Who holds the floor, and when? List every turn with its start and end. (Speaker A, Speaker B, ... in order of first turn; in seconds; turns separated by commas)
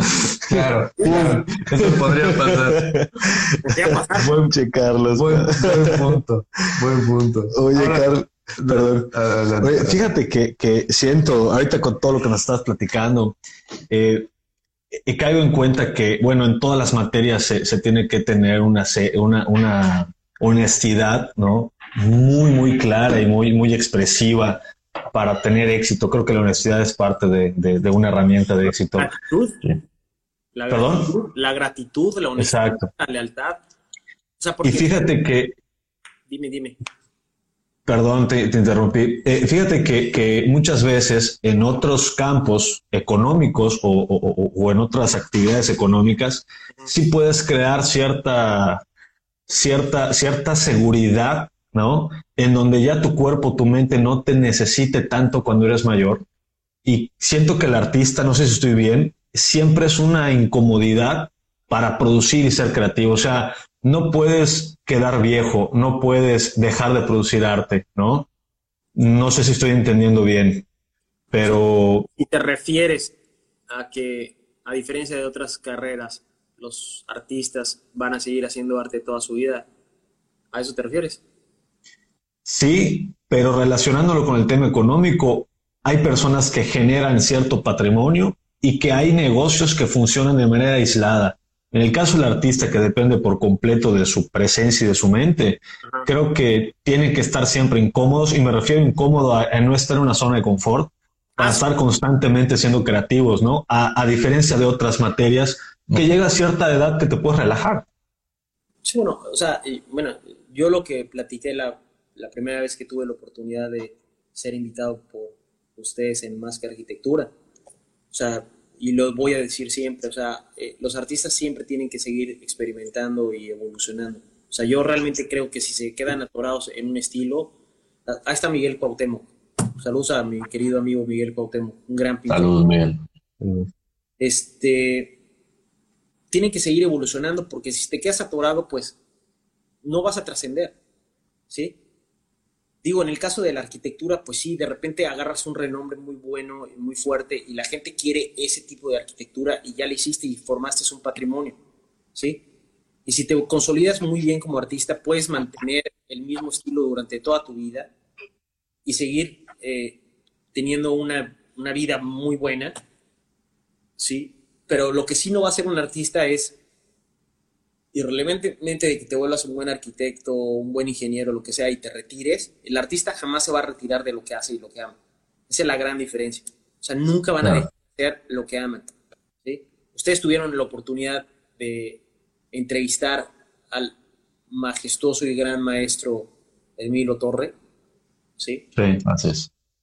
Speaker A: 0.5-3.1, Speaker B: 0.5-3.5, Speaker C: 1.0-1.4, Speaker C: 3.6-4.3, Speaker B: 4.2-6.2, Speaker A: 5.2-10.1, Speaker B: 7.5-13.3, Speaker B: 13.9-14.3, Speaker B: 15.1-24.6, Speaker B: 25.1-29.1, Speaker C: 29.0-29.6, Speaker C: 30.5-33.6, Speaker B: 30.7-31.1, Speaker B: 32.4-32.9, Speaker C: 34.4-35.0, Speaker B: 34.6-35.5, Speaker C: 36.3-36.8, Speaker B: 37.9-48.8, Speaker B: 49.5-56.2, Speaker B: 56.8-68.3, Speaker B: 69.0-70.7, Speaker B: 71.3-72.1, Speaker C: 72.2-73.1, Speaker C: 73.7-79.7, Speaker C: 80.5-81.2, Speaker B: 82.5-107.8, Speaker C: 101.4-101.6, Speaker C: 108.8-117.3, Speaker C: 118.1-127.5, Speaker C: 128.1-132.6, Speaker A: 132.3-133.0, Speaker C: 134.2-135.1, Speaker C: 136.3-138.9, Speaker C: 139.8-140.8, Speaker C: 141.5-141.8, Speaker C: 142.8-151.6, Speaker C: 152.1-152.4, Speaker C: 153.1-157.9, Speaker C: 158.8-160.0, Speaker C: 160.5-162.7, Speaker C: 164.0-166.5, Speaker C: 167.9-174.9, Speaker C: 175.5-178.9, Speaker C: 179.4-183.9, Speaker C: 184.5-187.5, Speaker C: 188.4-188.6, Speaker B: 188.8-189.0, Speaker A: 189.0-189.5